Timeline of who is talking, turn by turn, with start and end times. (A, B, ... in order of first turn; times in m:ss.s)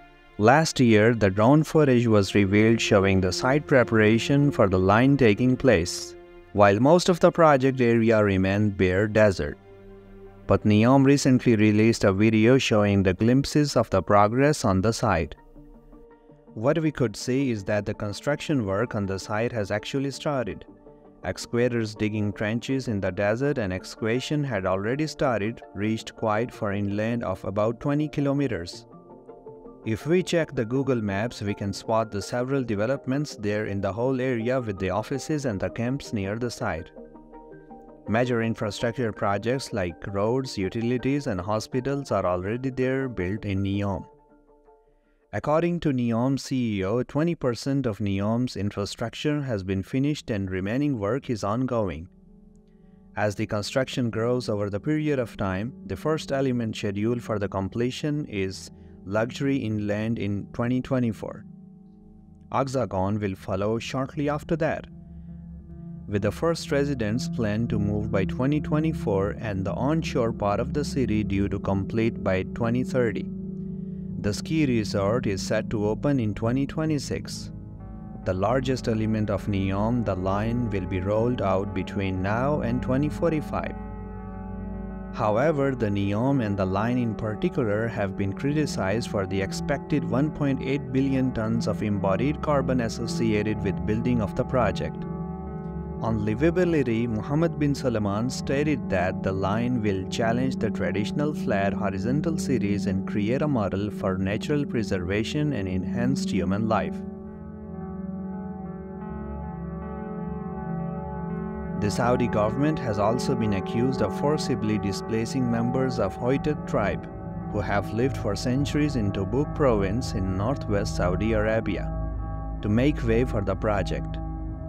0:00.4-0:09.6 A
0:10.5-0:15.4 A
0:16.5-0:20.7 A
0:21.2-0:28.8 A
0:29.8-0:36.9 A
0:38.1-0:44.1 A
0:45.3-0:52.1 A
0:53.2-1:01.4 A
1:02.5-1:04.9 A
1:06.1-1:13.3 A
1:14.2-1:17.5 A
1:18.2-1:23.8 A
1:25.1-1:35.1 A
1:36.0-1:47.0 A
1:51.7-2:01.9 A
2:02.6-2:04.2 A